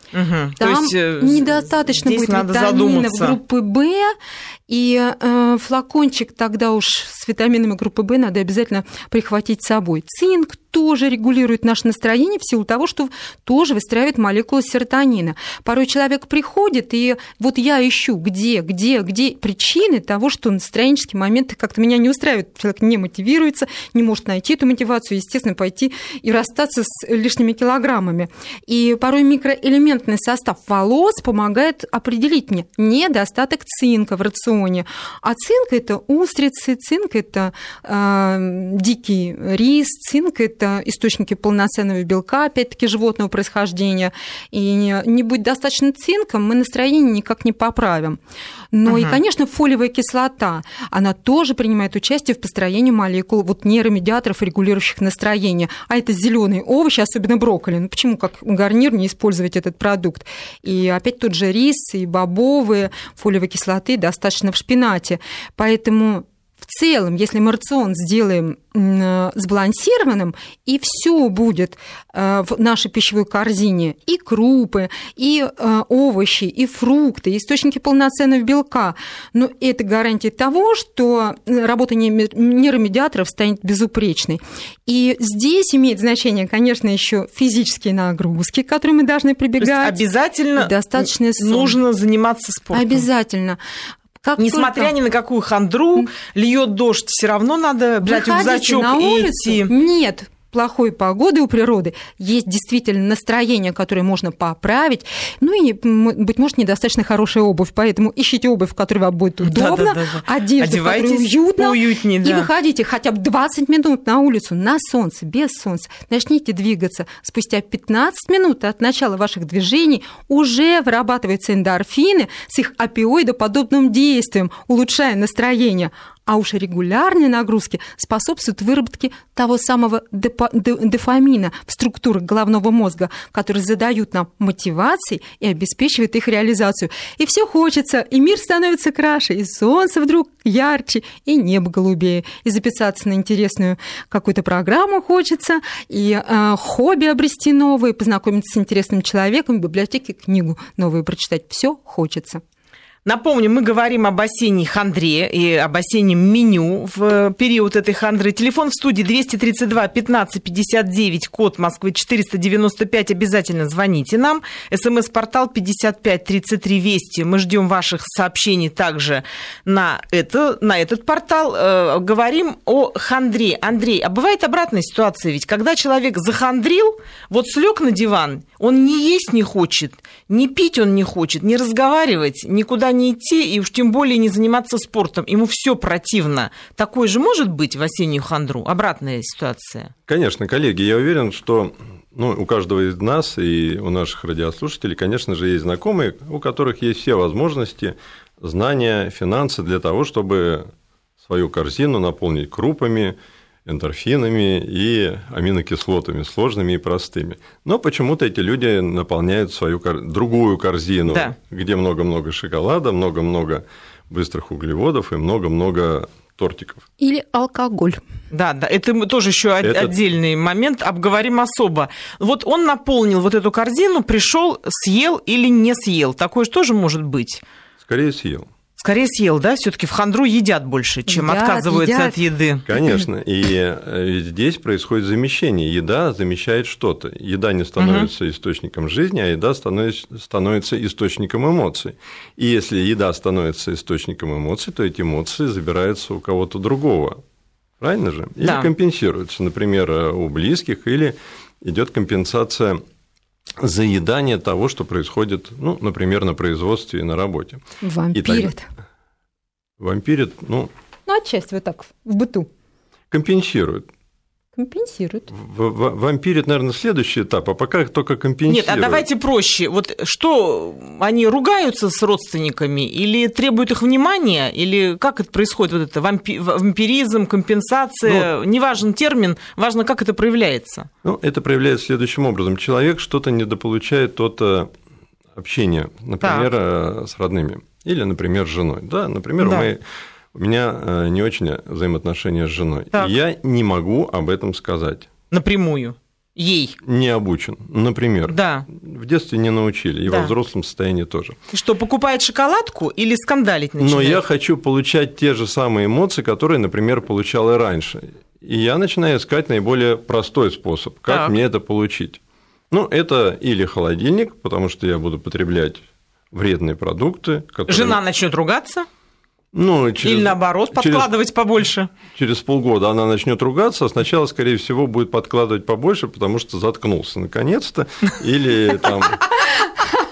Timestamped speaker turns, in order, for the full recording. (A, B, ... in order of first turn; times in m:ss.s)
0:00.1-0:03.4 A
0:00.6-0:04.2 B
0:04.7-0:48.2 B
0:48.7-1:30.0 B
0:48.9-0:49.2 A
1:29.6-1:33.1 A
1:30.6-1:31.8 B
1:32.7-1:33.6 B
1:34.2-1:34.9 B
1:34.4-1:39.7 A
1:38.0-2:32.4 B
1:49.4-1:52.5 A
2:33.0-3:09.9 A
3:10.1-3:20.7 C
3:21.2-3:36.8 C
3:31.1-3:31.4 A
3:37.0-3:38.0 B
3:38.3-3:47.4 A
3:39.6-3:39.9 C
3:47.8-3:48.5 C
3:48.8-3:52.7 A
3:51.1-3:52.2 B
3:52.7-4:07.2 C
3:52.7-3:53.0 B
3:57.8-3:58.1 A
4:07.8-4:12.8 C
4:08.4-4:08.7 A
4:13.6-4:17.6 C
4:17.8-4:18.7 B
4:18.1-4:18.5 C
4:19.8-4:20.7 C
4:21.1-4:22.5 B
4:23.1-4:23.9 C
4:24.6-4:25.3 B
4:25.3-4:29.1 C
4:28.5-4:40.9 A
4:41.0-4:44.7 C
4:45.3-4:55.1 C
4:46.2-4:46.5 A
4:49.4-4:49.7 A
4:55.3-4:56.8 A
4:56.8-5:01.4 C
4:58.3-4:58.7 A
5:00.1-5:00.3 A
5:01.5-5:04.2 A
5:03.8-5:18.0 C
5:11.1-5:11.4 A
5:17.7-5:18.9 A
5:19.5-5:21.1 C
5:20.0-5:21.9 A
5:22.1-5:29.2 C